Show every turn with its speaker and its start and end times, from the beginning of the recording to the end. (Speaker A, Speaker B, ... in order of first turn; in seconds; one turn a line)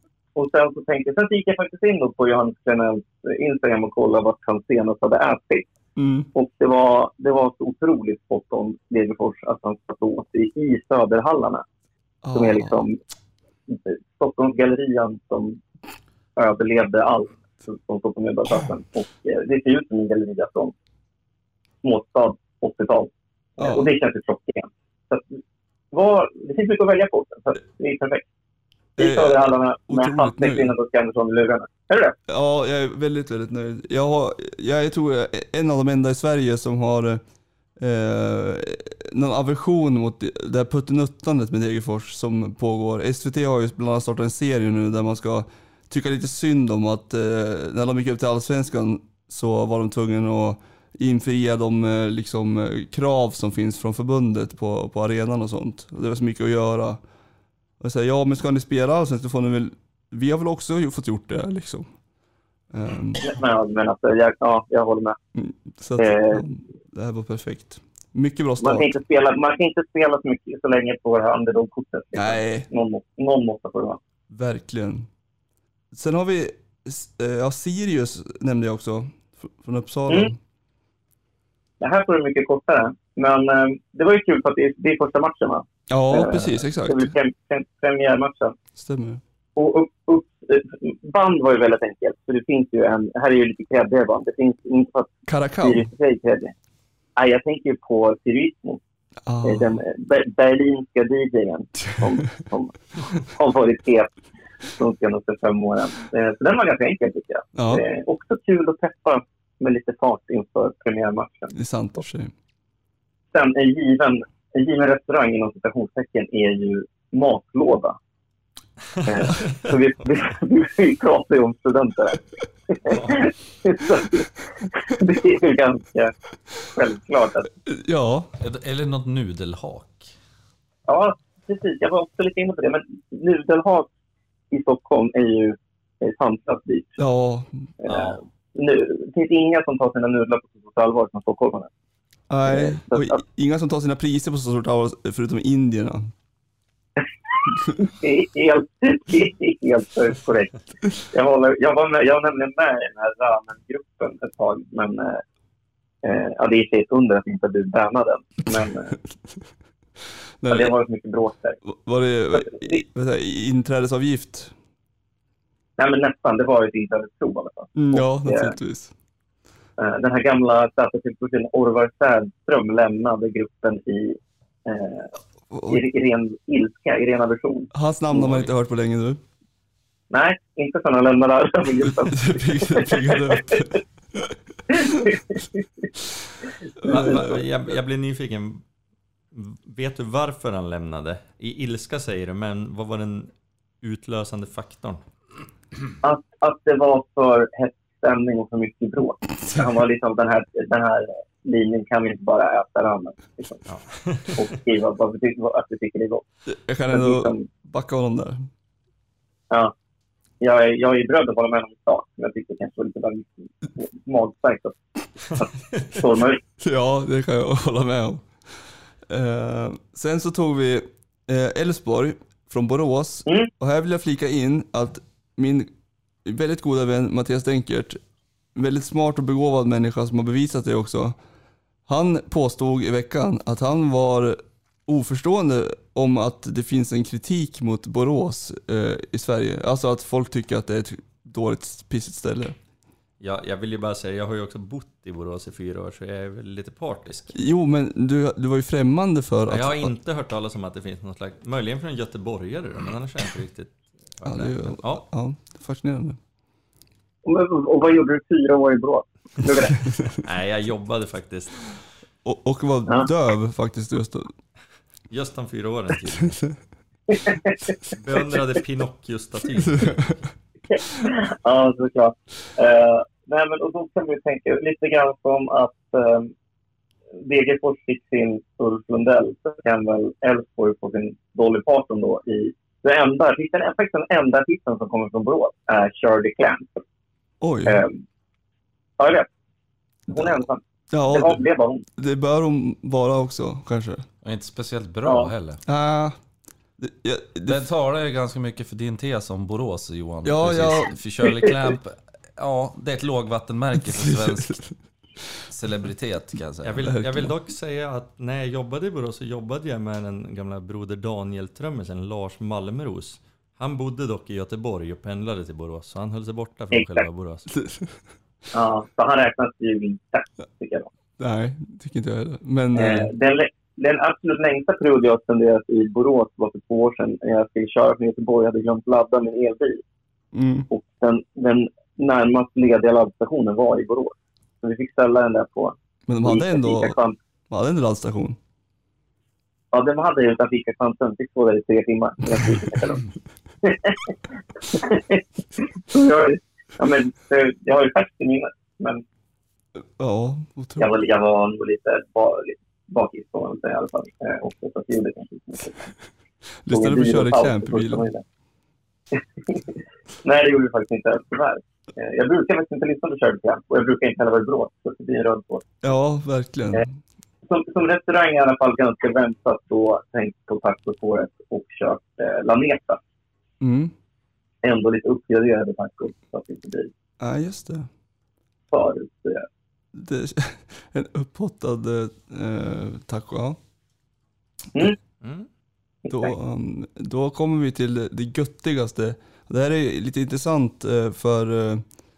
Speaker A: 0.3-5.7
Speaker B: 6.0-6.3
Speaker A: 6.3-11.7
Speaker B: 12.2-12.9
Speaker A: 12.3-13.0
Speaker A: 13.7-15.6
Speaker A: 16.4-20.7
Speaker A: 21.8-25.3
Speaker B: 23.6-23.9
Speaker A: 25.9-28.2
Speaker B: 29.0-30.7
Speaker A: 29.0-32.2
Speaker B: 32.3-37.2
Speaker B: 37.8-57.0
Speaker B: 57.8-61.9
Speaker B: 62.7-63.3
Speaker A: 63.2-65.2
Speaker B: 65.4-68.9
Speaker A: 66.0-66.4
Speaker A: 68.6-74.0
Speaker B: 72.1-72.7
Speaker B: 74.3-75.1
Speaker B: 75.9-80.4
Speaker A: 81.8-88.6
Speaker B: 85.9-87.2
Speaker B: 88.8-89.2
Speaker A: 89.6-96.5
Speaker B: 95.3-95.9
Speaker A: 97.2-98.8
Speaker B: 99.3-99.8
Speaker A: 99.4-104.1
Speaker A: 104.7-111.5
Speaker B: 107.5-107.8
Speaker B: 111.5-112.3
Speaker A: 113.3-118.0
Speaker A: 119.0-122.2
Speaker A: 122.7-127.5
Speaker B: 127.7-128.3
Speaker C: 128.4-130.1
Speaker A: 130.9-133.9
Speaker A: 134.5-137.0
Speaker B: 137.0-137.7
Speaker A: 137.8-141.7
Speaker C: 137.8-138.2
Speaker B: 142.3-146.1
Speaker A: 142.5-143.2
Speaker A: 147.5-155.2
Speaker A: 156.0-159.0
Speaker B: 160.4-160.7
Speaker A: 160.5-161.6
Speaker B: 161.7-164.6
Speaker A: 162.4-162.8
Speaker A: 165.8-168.6
Speaker B: 167.8-168.9
Speaker A: 169.8-175.1
Speaker B: 175.5-175.8
Speaker A: 175.7-178.4
Speaker B: 177.7-179.2
Speaker A: 180.1-183.4
Speaker B: 182.1-184.3
Speaker A: 184.8-185.6
Speaker B: 186.8-187.4
Speaker D: 186.8-188.6
Speaker A: 186.9-187.3
Speaker D: 189.3-195.0
Speaker A: 196.0-203.7
Speaker D: 203.7-204.3
Speaker A: 204.3-206.2
Speaker B: 206.5-208.5
Speaker A: 206.9-207.5
Speaker A: 210.4-214.8
Speaker A: 215.3-216.4
Speaker B: 216.6-218.3
Speaker B: 219.1-225.7
Speaker B: 226.2-228.0
Speaker B: 228.6-231.2
Speaker B: 231.9-242.6
Speaker D: 243.2-247.3
Speaker B: 247.3-249.9
Speaker D: 249.5-255.1
Speaker B: 254.2-256.2
Speaker A: 257.2-259.9
Speaker D: 260.2-261.7
Speaker B: 262.2-264.3
Speaker D: 265.1-266.4
Speaker A: 267.1-267.5
Speaker D: 268.0-270.1
Speaker B: 269.7-270.2
Speaker A: 270.7-276.3
Speaker A: 277.2-286.8
Speaker B: 287.4-287.8
Speaker A: 287.7-288.0
Speaker A: 289.0-289.3
Speaker B: 290.1-291.4
Speaker A: 290.1-291.9
Speaker B: 292.0-294.1
Speaker C: 294.2-295.6
Speaker A: 295.1-295.3
Speaker B: 295.6-296.2
Speaker B: 296.8-297.7
Speaker C: 297.5-304.6
Speaker B: 300.2-301.0
Speaker B: 303.9-304.8
Speaker C: 305.5-306.9
Speaker D: 306.6-317.5
Speaker B: 306.8-307.3
Speaker A: 316.7-317.0
Speaker A: 318.5-320.9
Speaker B: 321.2-323.1
Speaker A: 322.7-329.8
Speaker B: 330.3-330.7
Speaker A: 330.7-337.2
Speaker B: 336.1-337.0
Speaker B: 337.5-338.4
Speaker A: 339.7-343.0
Speaker A: 343.6-344.1
Speaker A: 344.7-349.0
Speaker B: 349.8-350.9
Speaker A: 350.8-355.8
Speaker B: 356.6-358.1
Speaker A: 356.7-358.2
Speaker A: 359.1-359.7
Speaker A: 360.2-365.8
Speaker B: 365.8-366.9
Speaker A: 367.4-373.0
Speaker B: 373.6-373.9
Speaker A: 374.6-376.9
Speaker B: 377.2-377.9
Speaker A: 378.7-379.5
Speaker B: 379.9-383.6
Speaker D: 385.2-385.5
Speaker B: 386.1-391.9